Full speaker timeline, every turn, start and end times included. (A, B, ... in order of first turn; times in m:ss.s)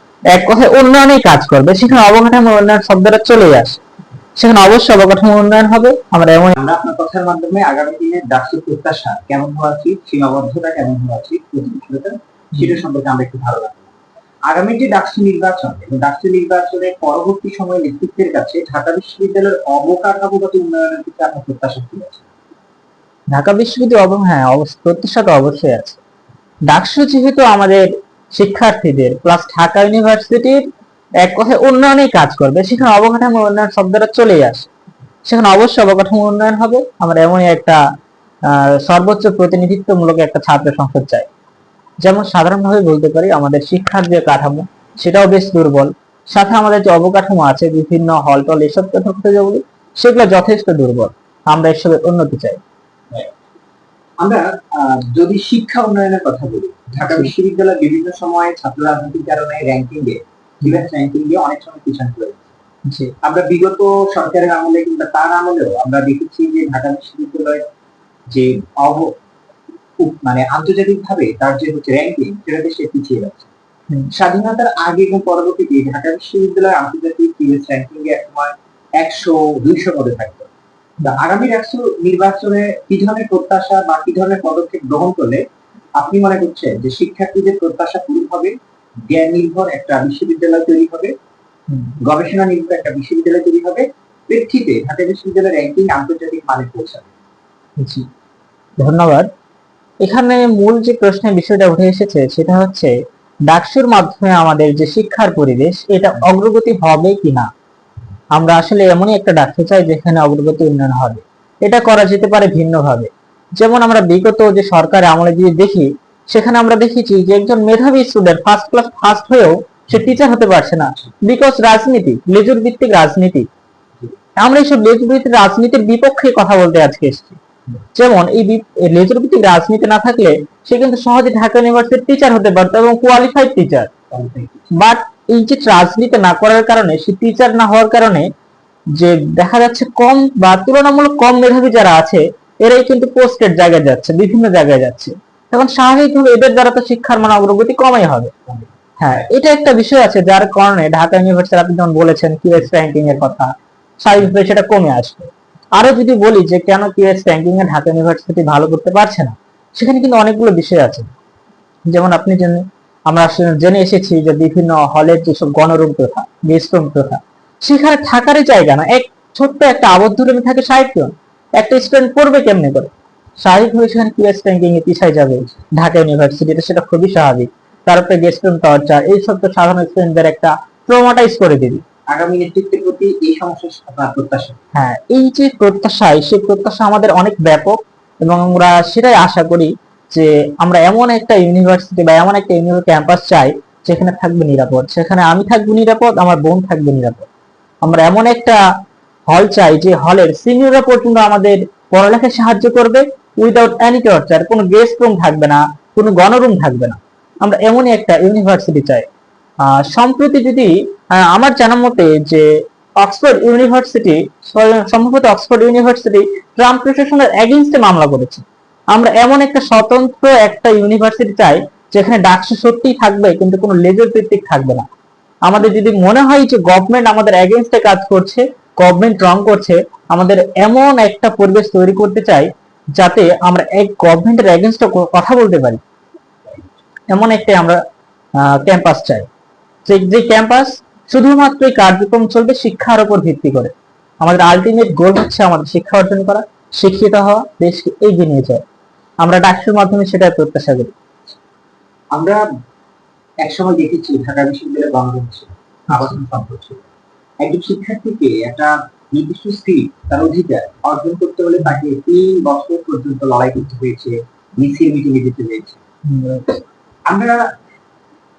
0:00.3-0:03.8 A
0:04.4-0:06.6 A
0:06.6-0:13.8 B
0:08.7-0:09.3 C
0:14.5-0:22.2 B
0:23.3-0:26.0 A
0:26.7-0:30.6 A
0:31.2-0:34.7 A
0:35.3-0:37.8 A
0:38.5-0:41.3 A
0:42.0-0:52.6 A
0:54.9-0:56.4 C
0:55.2-1:02.4 B
0:57.0-0:57.3 A
0:58.1-0:58.5 C
1:02.9-1:03.1 A
1:03.2-1:07.6 B
1:04.8-1:05.5 C
1:06.4-1:07.4 C
1:08.4-1:09.1 B
1:08.4-1:08.7 C
1:10.0-1:13.4 B
1:14.1-1:20.4 B
1:21.1-1:25.4 B
1:26.0-1:28.5 B
1:29.1-1:31.1 B
1:31.7-1:32.0 A
1:32.0-1:37.1 B
1:37.8-1:38.1 A
1:38.8-1:39.3 A
1:40.0-1:42.9 A
1:43.5-1:47.5 A
1:48.4-2:03.5 A
2:04.4-2:07.4 A
2:08.0-2:13.9 A
2:14.1-2:14.6 C
2:14.8-2:18.3 A
2:19.0-2:28.3 A
2:29.0-2:41.1 A
2:41.9-3:01.8 A
3:02.2-3:03.6 B
3:02.2-3:04.6 C
3:04.8-3:17.3 A
3:17.8-3:18.6 A
3:19.3-3:29.1 A
3:29.6-3:32.5 A
3:33.0-3:44.9 A
3:45.5-3:55.8 A
3:57.1-3:57.8 A
3:58.4-3:59.3 A
3:59.9-4:08.6 A
4:09.2-4:11.0 A
4:13.4-4:15.5 C
4:13.6-4:14.0 B
4:14.9-4:15.4 B
4:15.9-4:16.2 A
4:15.9-4:16.7 B
4:16.1-4:16.8 C
4:17.4-4:18.6 B
4:17.6-4:25.8 C
4:19.2-4:22.1 B
4:26.1-4:26.6 A
4:27.1-4:27.4 C